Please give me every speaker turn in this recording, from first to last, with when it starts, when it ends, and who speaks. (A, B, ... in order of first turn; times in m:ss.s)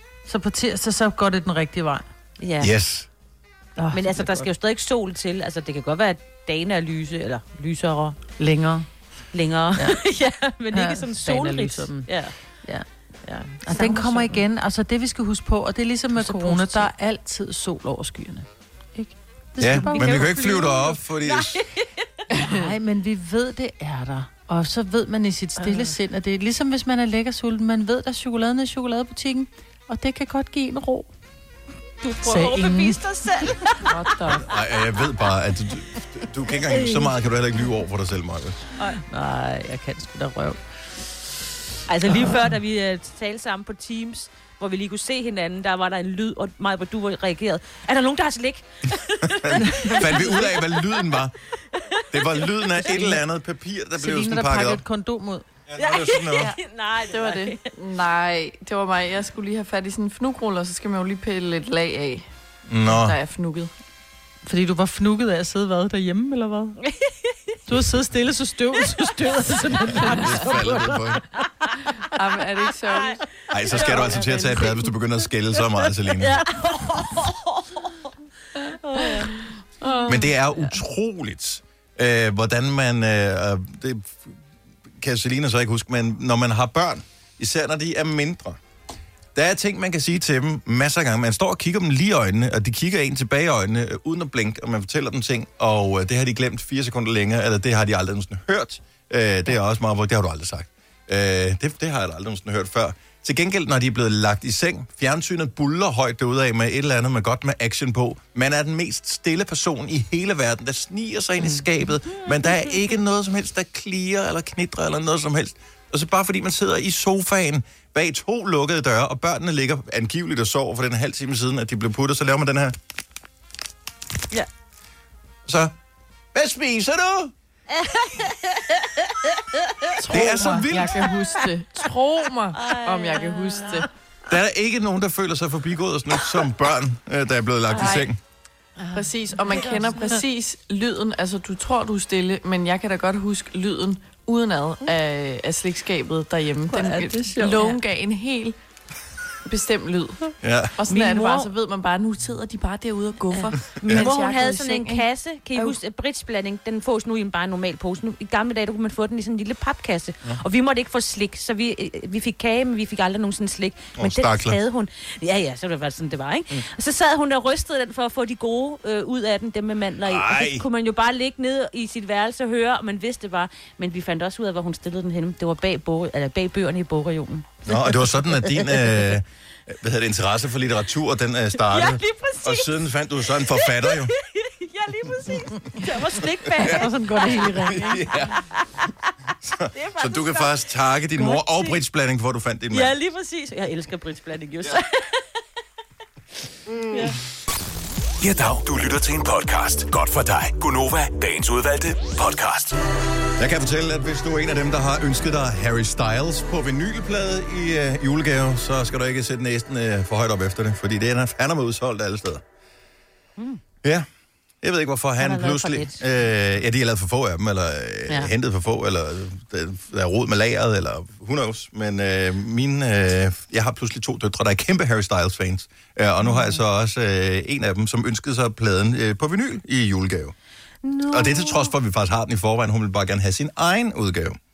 0:00.3-0:02.0 A
0:02.4-0:02.7 B
0:02.6-0:03.1 C
0:03.8-0:04.5 A
0:03.9-0:08.2 B
0:08.4-0:08.9 A
0:09.3-0:12.3 B
0:10.7-0:12.1 A
0:13.2-0:14.4 B
0:13.6-0:20.3 A
0:16.2-0:16.9 B
0:19.6-0:21.6 C
0:19.8-0:21.9 B
0:22.4-0:22.6 D
0:22.4-0:31.1 A
0:32.0-0:33.6 B
0:32.2-0:33.7 A
0:33.8-0:34.4 D
0:34.4-0:38.6 C
0:38.8-0:39.6 B
0:39.3-0:40.6 A
0:41.9-0:51.1 B
0:49.4-0:51.3 C
0:51.7-0:52.5 B
0:52.1-0:54.8 C
0:52.9-0:53.2 A
0:54.0-0:55.4 A
0:55.7-0:56.5 C
0:55.8-0:57.6 B
0:57.1-1:02.3 D
1:02.7-1:03.2 C
1:02.9-1:03.7 D
1:04.4-1:06.8 A
1:06.8-1:07.4 B
1:07.7-1:11.2 A
1:10.2-1:11.2 C
1:12.1-1:13.2 D
1:12.8-1:14.6 B
1:13.5-1:16.4 C
1:13.7-1:14.9 D
1:15.6-1:19.4 B
1:19.2-1:20.3 D
1:20.0-1:24.4 C
1:25.0-1:28.6 C
1:29.3-2:02.8 C
1:51.4-1:52.8 B
2:05.4-2:05.7 C
2:06.3-2:07.3 C
2:07.7-2:10.4 B
2:10.0-2:13.9 D
2:10.1-2:11.0 C
2:12.5-2:13.8 B
2:14.3-2:18.2 C
2:17.8-2:18.1 D
2:18.9-2:19.9 A
2:18.9-2:28.5 D
2:26.7-2:27.8 B
2:29.4-2:35.8 D
2:30.4-2:30.7 C
2:30.9-2:31.5 B
2:33.3-2:59.2 B
2:33.8-2:34.1 C
2:44.0-2:44.6 C
2:50.0-2:50.6 C
2:57.6-3:04.1 C
3:01.6-3:08.9 B
3:06.6-3:06.8 C
3:06.6-3:07.9 A
3:07.7-3:08.4 C
3:09.4-3:12.9 C
3:09.7-3:10.6 B
3:11.2-3:11.8 B
3:12.7-3:15.2 B
3:16.7-3:17.1 C
3:18.2-3:22.8 E
3:23.4-3:32.4 C
3:34.6-3:50.3 C
3:35.2-3:36.0 B
3:46.2-3:46.6 B
3:50.8-3:51.7 B
3:51.1-3:54.4 C